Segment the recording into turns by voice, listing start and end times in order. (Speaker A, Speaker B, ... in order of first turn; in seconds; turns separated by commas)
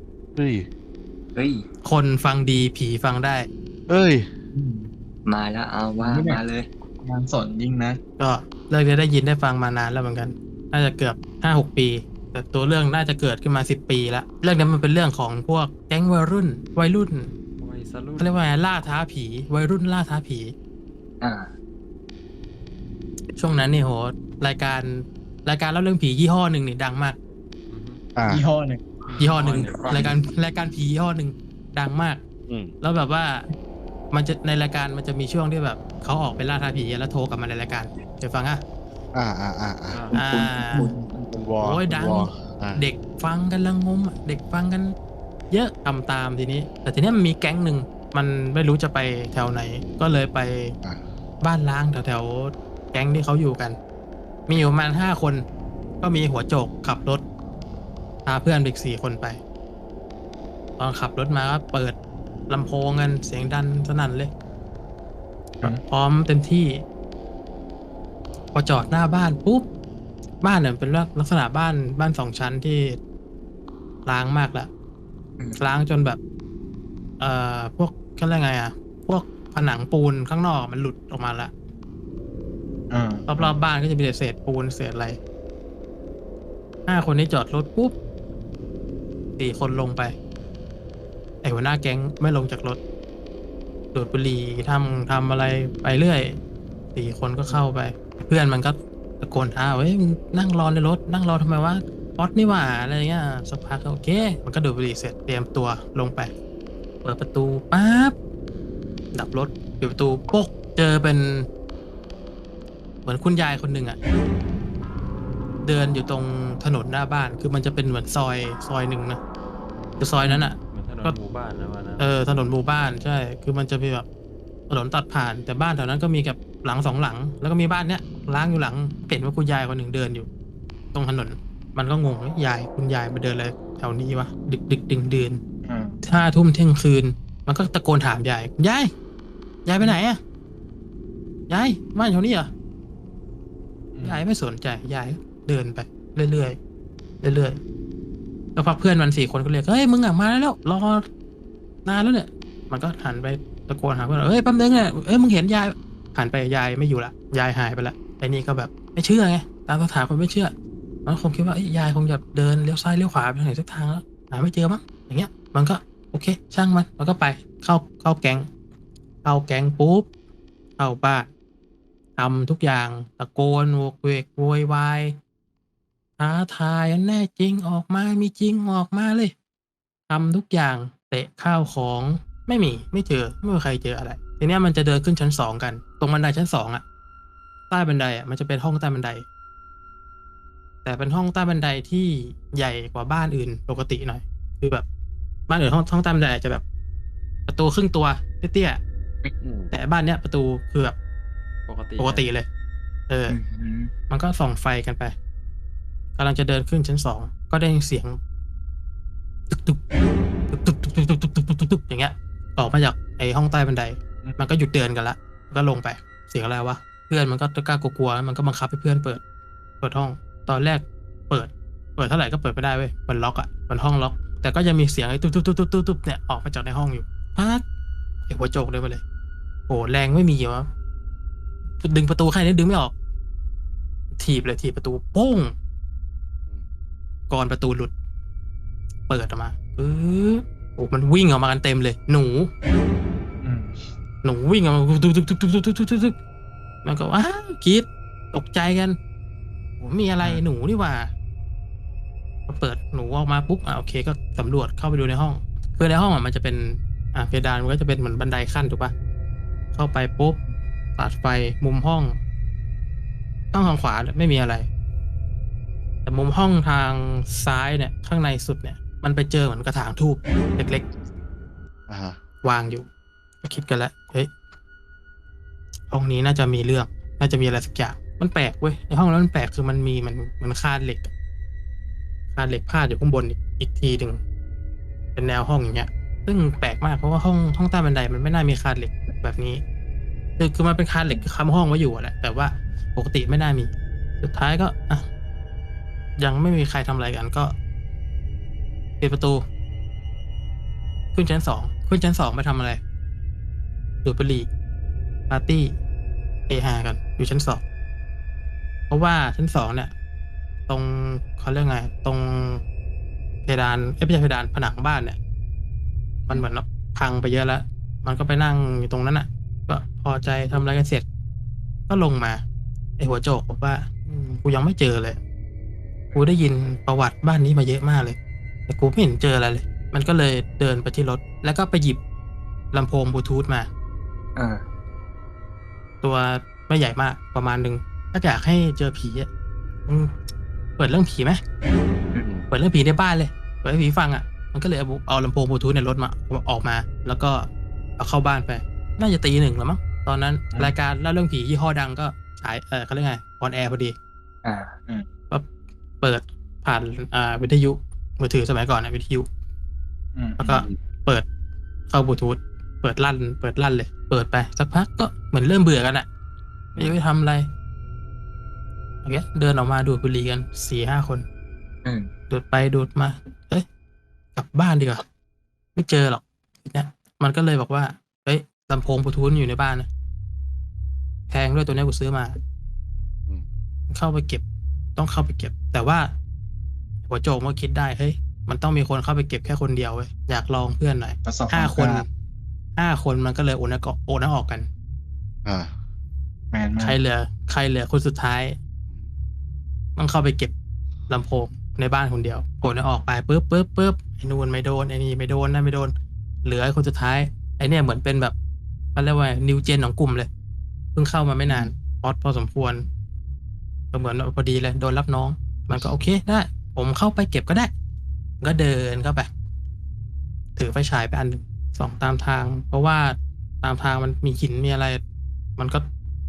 Speaker A: 0.4-0.7, Speaker B: 1.4-1.7, Speaker C: 1.8-3.5, Speaker A: 3.9-4.3, Speaker D: 4.5-4.9, Speaker B: 5.3-6.7, Speaker D: 6.0-6.4, Speaker D: 7.0-8.0, Speaker C: 8.2-17.3, Speaker E: 17.6-18.4, Speaker C: 18.2-20.5, Speaker B: 21.2-21.5, Speaker C: 23.4-27.2, Speaker E: 27.7-28.0, Speaker A: 28.1-28.4, Speaker D: 28.3-28.9, Speaker E: 29.1-30.1, Speaker C: 29.2-32.2, Speaker A: 32.5-32.7, Speaker C: 32.8-33.5, Speaker C: 34.1-38.6, Speaker A: 39.1-40.1, Speaker E: 39.9-40.2, Speaker B: 40.1-41.0, Speaker C: 40.1-40.9, Speaker D: 40.6-41.4, Speaker A: 41.3-42.8, Speaker C: 41.6-44.9, Speaker C: 45.5-50.8, Speaker C: 51.4-53.8, Speaker C: 54.5-55.5, Speaker C: 56.0-57.2, Speaker C: 58.2-59.4, Speaker C: 60.8-62.0, Speaker C: 62.5-64.3, Speaker C: 65.7-66.8, Speaker C: 68.5-69.7, Speaker C: 70.4-73.0, Speaker C: 74.1-74.7, Speaker C: 75.6-76.2, Speaker C: 77.2-81.5, Speaker D: 82.9-83.6, Speaker C: 83.3-85.2, Speaker C: 86.9-88.0, Speaker C: 89.4-90.1, Speaker C: 91.4-92.8, Speaker C: 93.9-96.4, Speaker C: 97.0-106.3, Speaker C: 107.0-108.2, Speaker C: 109.1-111.5, Speaker C: 113.0-114.0, Speaker C: 115.6-119.2, Speaker C: 120.0-121.2, Speaker E: 120.6-122.1, Speaker C: 122.0-124.1, Speaker C: 124.7-130.3, Speaker C: 130.9-135.4, Speaker D: 135.7-136.0, Speaker C: 136.0-138.9, Speaker C: 139.7-140.2, Speaker C: 141.5-142.5, Speaker D: 143.9-144.2, Speaker C: 144.0-146.6, Speaker C: 147.2-147.6, Speaker C: 148.6-151.1, Speaker C: 151.8-160.5, Speaker C: 161.1-168.5, Speaker C: 169.2-170.1, Speaker C: 170.8-171.3, Speaker C: 172.2-175.2, Speaker C: 176.2-179.3, Speaker C: 180.1-186.8, Speaker C: 187.7-189.2, Speaker C: 190.8-194.8, Speaker C: 195.5-196.6, Speaker C: 197.5-198.8, Speaker E: 199.4-199.7, Speaker C: 199.7-201.0, Speaker E: 201.7-202.3, Speaker C: 202.0-202.5, Speaker C: 203.1-203.4, Speaker B: 203.3-203.9, Speaker C: 204.1-205.1, Speaker C: 206.2-208.2, Speaker C: 209.5-209.8, Speaker C: 210.5-219.2, Speaker C: 219.8-227.6, Speaker C: 228.3-229.0, Speaker C: 229.7-230.7, Speaker C: 231.8-232.9, Speaker C: 234.2-235.5, Speaker C: 237.3-237.9, Speaker C: 239.1-242.5, Speaker D: 243.4-243.8, Speaker C: 244.2-246.2, Speaker C: 246.8-249.0, Speaker C: 249.8-251.1, Speaker C: 252.5-258.9, Speaker C: 259.7-260.4, Speaker C: 261.0-262.2, Speaker C: 263.5-264.7, Speaker C: 266.1-270.9, Speaker A: 271.9-272.2, Speaker C: 272.4-272.9, Speaker C: 273.4-274.3, Speaker C: 275.9-281.1, Speaker C: 282.3-284.2, Speaker C: 285.1-289.6, Speaker C: 290.4-293.7, Speaker C: 294.2-295.1, Speaker C: 296.2-297.6, Speaker C: 299.0-299.4, Speaker C: 301.1-302.8, Speaker C: 304.0-304.5, Speaker C: 305.3-305.8, Speaker C: 306.5-307.6, Speaker C: 308.9-309.9, Speaker C: 310.7-312.6, Speaker C: 313.4-315.2, Speaker C: 316.3-321.1, Speaker C: 321.9-322.4, Speaker C: 323.0-325.2, Speaker C: 326.1-328.2, Speaker C: 328.7-332.0, Speaker C: 332.7-333.7, Speaker B: 334.4-334.6, Speaker C: 336.0-339.3, Speaker C: 339.9-340.1, Speaker C: 340.8-341.4, Speaker B: 342.1-342.4, Speaker C: 342.5-347.5, Speaker C: 348.0-353.9, Speaker B: 354.4-354.7, Speaker C: 356.0-359.3, Speaker D: 360.1-360.7, Speaker C: 360.4-361.2, Speaker C: 361.9-366.1, Speaker C: 366.8-367.5, Speaker C: 369.0-371.2, Speaker C: 372.3-373.6, Speaker C: 374.4-375.1, Speaker C: 375.8-379.9, Speaker C: 381.3-382.4, Speaker C: 383.9-384.4, Speaker C: 385.0-386.1, Speaker C: 387.1-392.1, Speaker D: 391.3-392.1, Speaker C: 392.8-394.7, Speaker A: 395.4-395.7, Speaker D: 396.5-397.0, Speaker C: 396.8-398.6, Speaker C: 400.0-400.5, Speaker C: 401.1-405.9, Speaker C: 406.4-408.4, Speaker C: 408.9-410.3, Speaker C: 410.9-412.9, Speaker C: 413.9-417.7, Speaker C: 418.4-419.3, Speaker C: 420.6-425.0, Speaker C: 425.6-425.9